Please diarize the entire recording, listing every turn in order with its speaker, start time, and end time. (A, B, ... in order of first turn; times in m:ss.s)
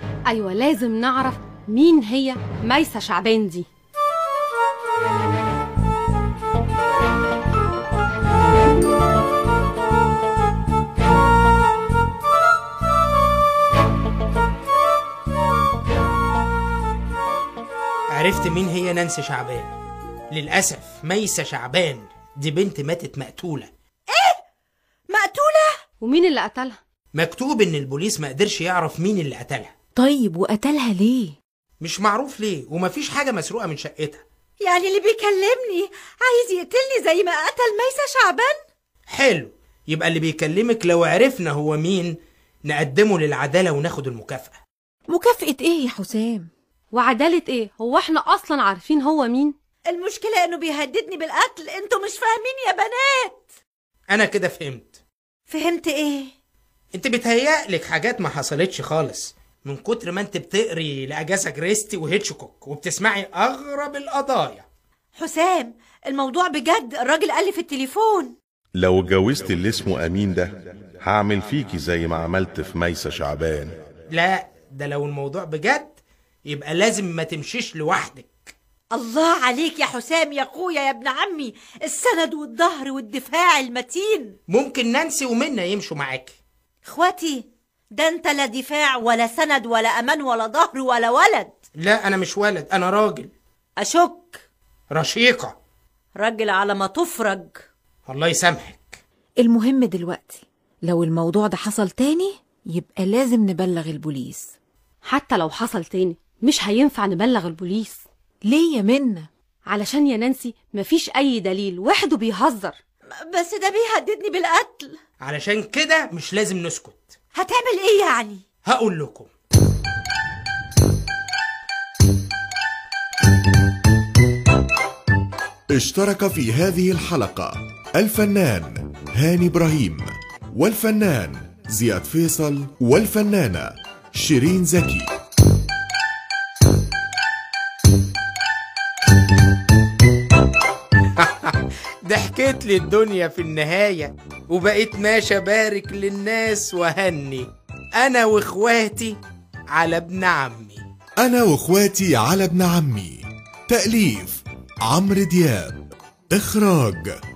0:00.3-0:03.7 A
0:18.2-0:19.7 B
0:20.3-0:23.7 B
0:24.1-0:24.4 C
0:25.1-0:25.8 C
0:26.0-0:26.8 A
0:27.1-0:29.7 B
0:30.0-0:31.4 D
0:31.8-0:34.2 B
0:34.6-0:38.6 C
0:39.1-0:42.2 B
0:42.7-0:44.6 B
0:45.1-0:46.5 D
0:46.9-0:49.6 A
0:49.9-0:53.4 C
0:54.1-0:55.0 B
0:55.5-0:56.3 C
0:57.0-1:04.6 B
1:05.2-1:08.4 C
1:08.8-1:13.8 E
1:14.1-1:16.0 B
1:16.5-1:18.5 B
1:18.9-1:24.4 C
1:24.5-1:26.4 B
1:26.8-1:31.5 C
1:31.8-1:33.3 B
1:33.8-1:34.4 C
1:34.9-1:35.6 B
1:36.2-1:37.6 C
1:38.1-1:39.0 B
1:39.4-1:44.5 D
1:45.1-1:48.0 A
1:48.4-1:49.3 D
1:49.7-1:52.8 A
1:53.2-1:55.0 C
1:55.2-1:57.2 B
1:57.4-1:58.4 C
1:58.7-1:59.3 B
2:05.7-2:15.1 F
2:21.2-2:27.5 B
2:28.0-2:29.2 B
2:29.8-2:30.8 B
2:31.2-2:37.1 F